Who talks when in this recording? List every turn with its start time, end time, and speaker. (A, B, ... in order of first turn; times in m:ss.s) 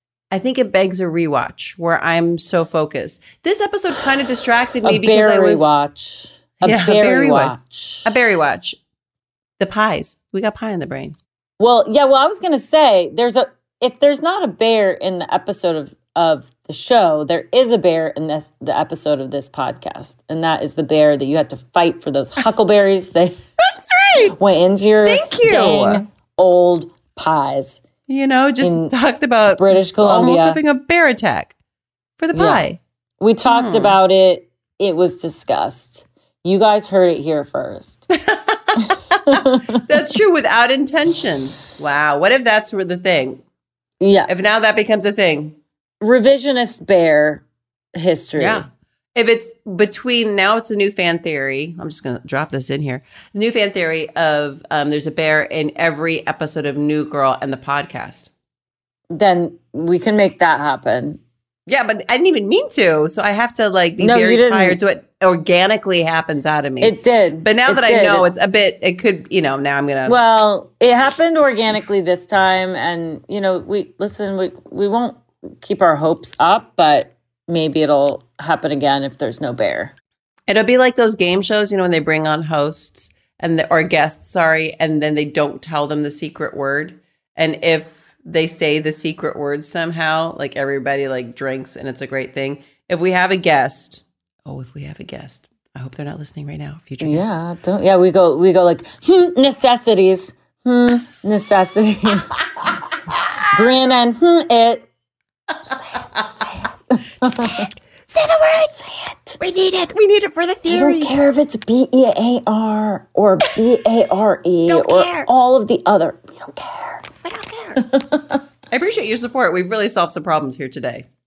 0:00.3-0:05.7 A
0:04.8-0:08.2 B
0:06.6-0:07.5 A
0:08.0-0:08.8 A
0:09.6-0:11.2 A
0:11.6-0:23.4 B
0:23.8-0:24.4 A
0:24.4-0:27.8 B
0:25.0-0:26.0 A
0:28.1-0:31.5 A
0:28.6-0:28.9 B
0:29.5-0:30.6 B
0:32.2-0:32.8 A
0:32.3-0:32.6 B
0:33.2-0:38.1 B
0:33.5-0:34.0 A
0:38.2-0:43.4 A
0:44.0-0:44.3 B
0:44.3-0:45.6 A
0:46.0-0:47.4 B
0:48.0-0:48.6 B
0:48.4-0:58.3 A
0:59.1-1:01.2 B
1:01.7-1:10.2 A
1:04.0-1:04.8 B
1:06.8-1:08.2 B
1:10.0-1:19.9 B
1:20.5-1:37.3 A
1:37.0-1:42.5 B
1:43.4-1:44.8 B
1:45.6-1:47.7 B
1:47.5-1:48.6 A
1:48.5-1:49.4 B
1:49.4-1:51.0 A
1:50.6-1:57.1 B
1:54.7-1:55.2 A
1:57.8-1:58.4 B
1:58.7-2:01.0 A